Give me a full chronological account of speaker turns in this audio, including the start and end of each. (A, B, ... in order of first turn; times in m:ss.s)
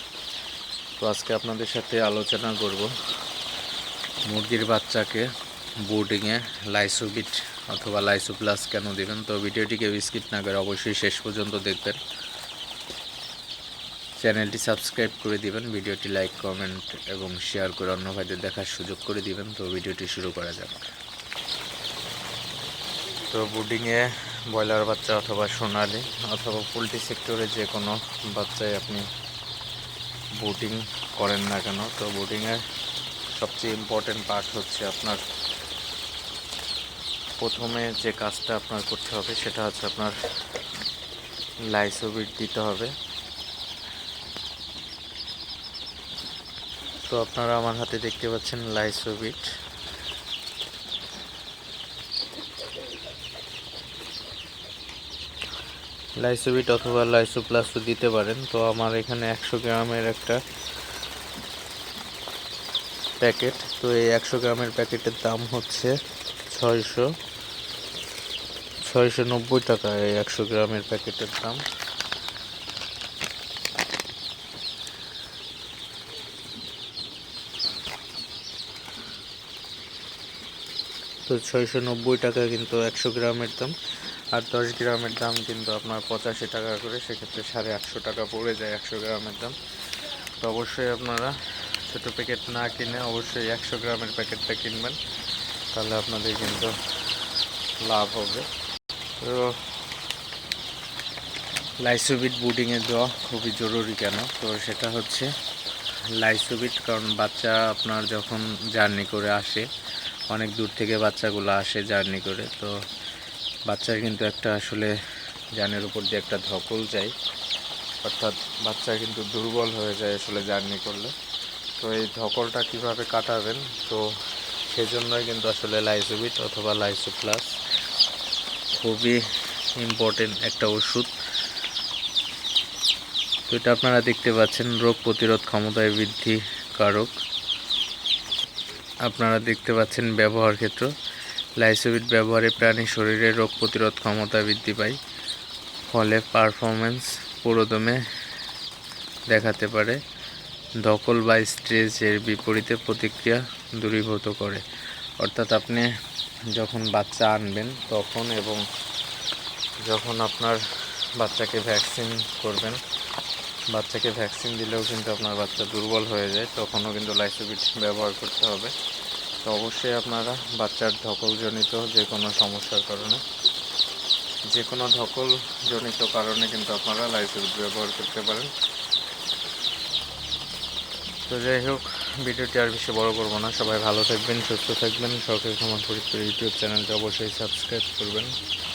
0:01.0-0:02.9 A
0:04.3-0:05.3 A
0:05.8-0:12.0 A
0:14.2-0:20.8 A
0:23.3-0:29.1 A
0:30.4-0:32.6 A
0:33.3-0:35.2 A
0:37.4-0:40.2 A
0:41.7-0:42.9 A
0:47.1-0:49.4 A
0:56.2-1:00.4 A
1:03.2-1:05.9 A
1:06.5-1:07.1 A
1:08.9-1:11.6 A
1:21.3-1:23.7 A
1:24.3-1:35.0 A
1:35.7-1:37.2 A
1:37.8-1:38.5 A
1:39.2-1:39.6 A
1:41.8-1:45.3 A
1:46.2-1:49.7 A
1:50.3-1:52.7 A
1:53.7-1:54.9 A
1:55.6-1:57.1 A
1:58.0-2:01.1 A
2:01.8-2:04.0 A
2:04.7-2:07.5 A
2:08.8-2:09.2 A
2:09.8-2:11.1 A
2:13.5-2:17.1 A
2:19.1-2:20.9 A
2:21.6-2:25.0 A
2:25.9-2:28.0 A
2:29.3-2:30.0 A
2:30.8-2:34.6 A
2:35.2-2:35.9 A
2:36.5-2:38.6 A
2:39.8-2:40.6 A
2:41.2-2:42.8 A
2:43.7-2:48.7 A
2:49.4-2:53.2 A
2:54.5-2:58.5 A
3:01.3-3:08.3 A